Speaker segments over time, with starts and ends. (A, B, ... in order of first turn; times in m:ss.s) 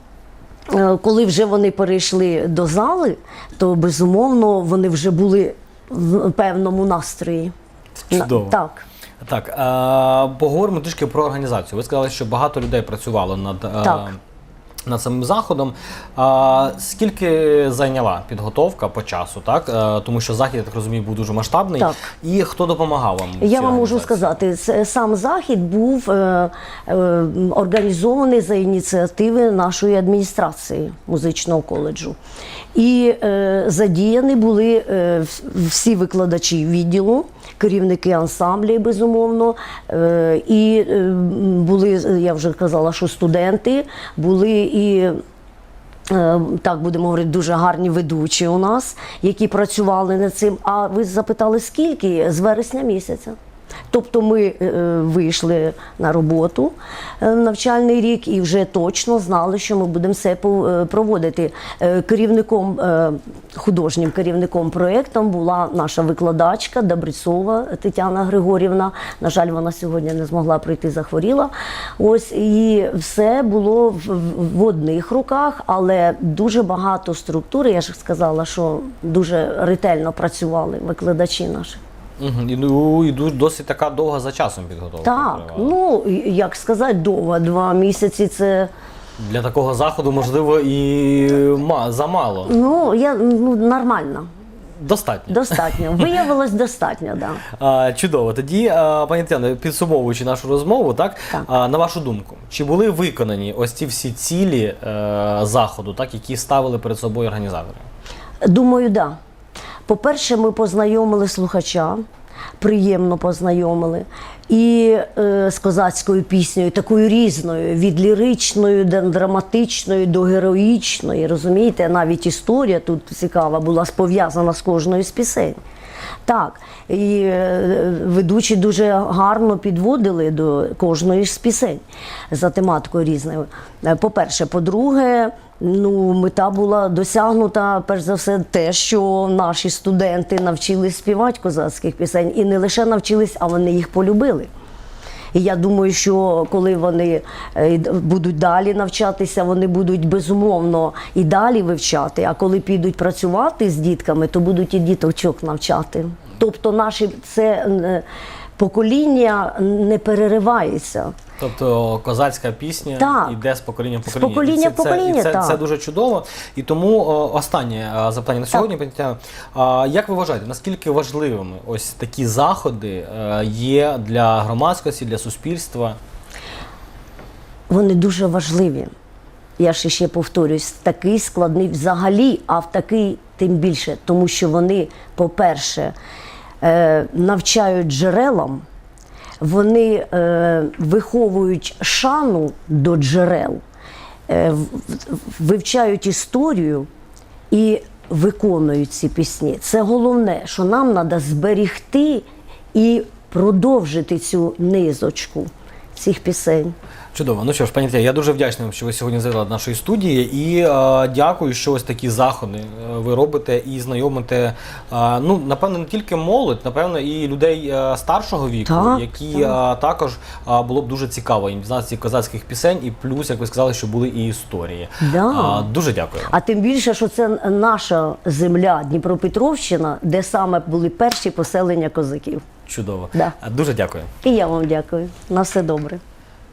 0:00.7-0:07.5 A
0:08.1-0:08.6 B
0:08.1-0:08.8 A
0:09.2-0:14.2 B
0:13.8-0:14.1 A
0:14.9-0:24.4 B
0:21.8-0:22.0 A
0:23.4-0:32.2 A
0:32.8-0:45.2 A
0:46.1-0:53.4 A
0:53.9-1:21.8 A
1:22.2-1:25.8 B
1:25.0-1:28.7 A
1:29.2-1:32.5 B
1:32.4-1:34.3 A
1:34.8-1:36.1 B
1:35.3-1:37.4 A
1:37.5-1:47.9 B
1:48.4-1:49.2 A
1:49.9-1:52.0 A
1:52.6-2:05.6 A
2:06.2-2:24.5 A
2:25.3-2:38.0 A
2:38.6-2:41.2 A
2:41.4-2:56.0 B
2:43.0-2:43.4 A
2:44.1-2:45.6 A
2:57.7-2:58.9 A
2:59.6-3:05.9 A
3:06.6-3:08.6 A
3:09.4-3:13.6 A
3:14.3-3:16.9 A
3:17.5-3:26.8 A
3:27.1-3:46.3 B
3:38.7-3:39.6 A
3:45.0-3:45.7 A
3:46.3-3:52.4 A
3:52.7-3:54.1 B
3:54.2-3:56.0 A